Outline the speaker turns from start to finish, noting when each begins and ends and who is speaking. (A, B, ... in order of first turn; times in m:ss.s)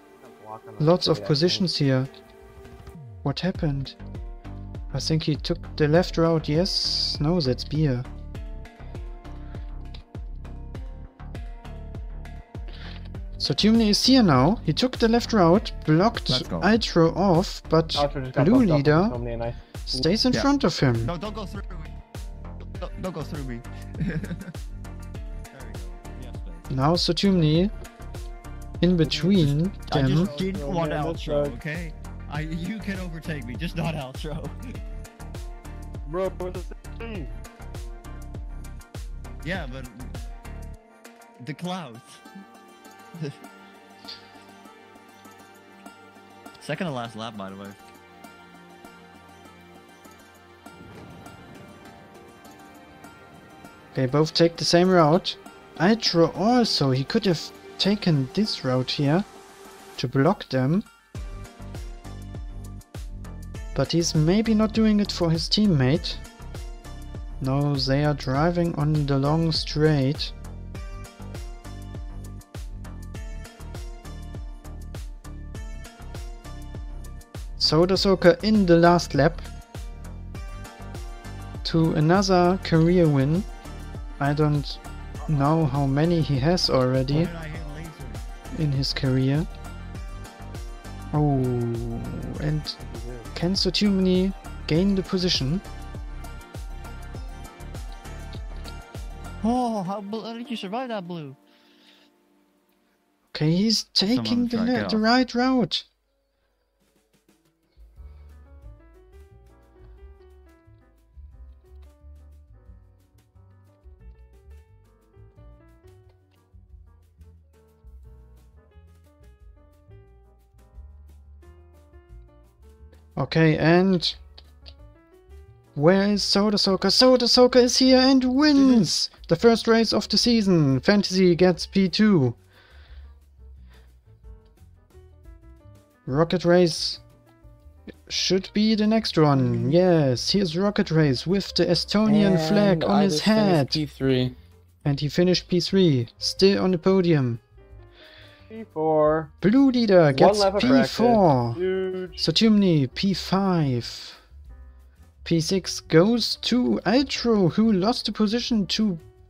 0:00.2-0:01.7 A
0:00.8-0:02.1 B
0:03.2-0:04.0 B
0:04.9-0:08.1 B
0:13.4-0:19.2 B
0:16.3-0:16.7 C
0:18.0-0:20.1 A
0:19.9-0:21.1 B
0:21.0-0:21.9 C
0:22.8-0:24.5 C
0:25.5-0:26.7 C
0:26.7-0:27.7 B
0:28.8-0:30.3 B
0:29.0-0:29.5 A
0:29.7-0:34.5 C
0:30.3-0:31.6 A
0:36.1-0:37.3 A
0:39.4-0:40.2 C
0:41.4-0:42.2 C
0:46.6-0:47.8 C
0:53.9-0:59.3 B
1:00.0-1:00.8 B
1:03.7-1:06.2 B
1:07.4-1:10.3 B
1:17.6-1:19.5 B
1:21.6-1:23.5 B
1:24.2-1:27.3 B
1:27.1-1:28.2 C
1:28.5-1:29.5 B
1:31.1-1:32.8 B
1:32.8-1:33.3 A
1:33.3-1:35.6 B
1:39.4-1:41.4 C
1:43.3-1:45.8 B
1:44.0-1:45.0 C
2:03.2-2:04.2 B
2:05.7-2:12.4 B
2:16.0-2:17.0 B
2:18.1-2:23.8 B
2:22.0-2:24.4 D
2:24.8-2:27.4 B
2:28.5-2:29.3 A
2:29.4-2:31.6 B
2:30.1-2:32.2 A
2:32.2-2:34.2 B
2:35.2-2:39.0 B